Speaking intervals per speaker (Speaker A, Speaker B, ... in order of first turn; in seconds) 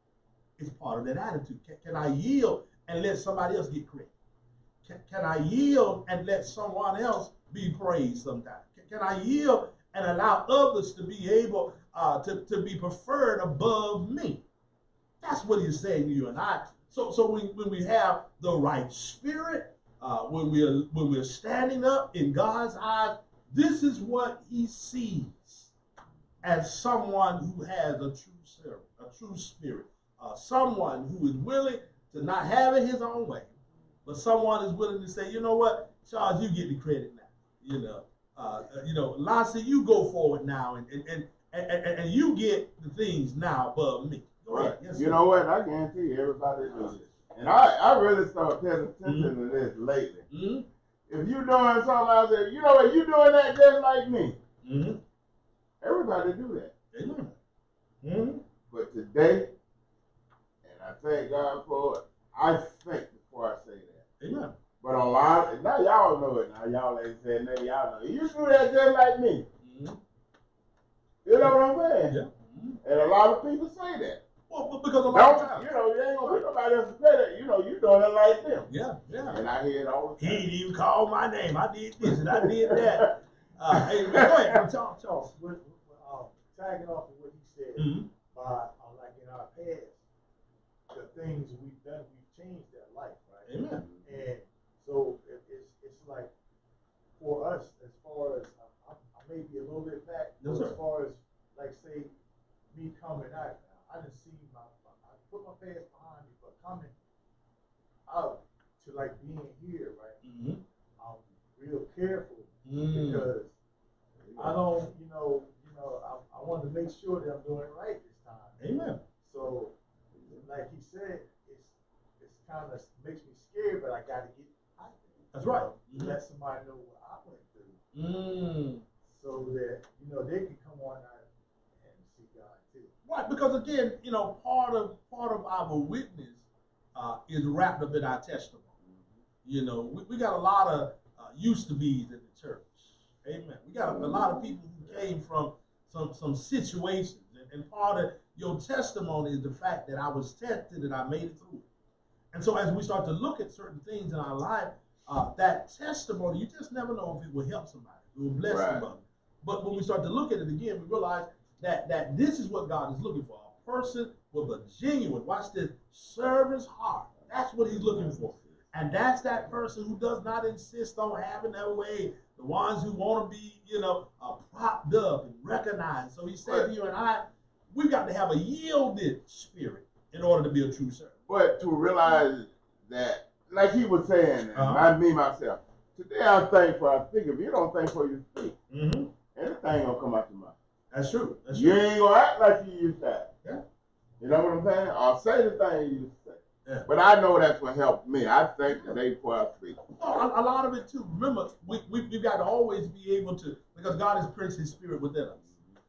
Speaker A: 0.6-4.1, 4.8-14.4, 15.2-25.7, 26.4-33.5, 34.0-45.2, 49.0-49.3, 50.3-50.7, 54.6-55.0, 56.9-57.4, 58.0-58.4, 64.2-64.5, 69.6-70.0, 72.1-72.8, 74.5-75.7, 78.7-79.4, 80.2-85.3, 87.8-88.1, 93.5-93.8, 100.4-100.8, 110.2-110.6, 112.7-113.3, 118.6-119.0, 125.3-126.2, 127.9-128.8, 133.1-136.4, 136.9-138.7, 139.4-151.7, 152.3-181.2, 184.5-184.9, 188.7-189.1, 190.9-191.8, 198.7-199.0, 199.9-205.4
Speaker B: 44.5-50.2, 51.1-54.4, 55.8-56.7, 58.7-59.5, 60.6-64.0, 64.8-69.5, 71.2-72.1, 72.8-74.2, 75.1-78.7, 79.3-80.5, 82.0-82.8, 83.7-84.6, 114.2-114.6, 138.8-139.1, 143.8-144.5, 158.4-158.8, 167.2-168.4, 181.3-188.5, 189.3-190.5, 191.5-193.3, 194.2-199.8
Speaker C: 85.3-90.0, 90.9-93.5, 94.0-96.3, 97.2-102.1, 102.7-106.9, 108.1-110.2, 111.0-113.5, 114.3-118.6, 119.2-119.8, 120.3-127.8, 129.0-132.9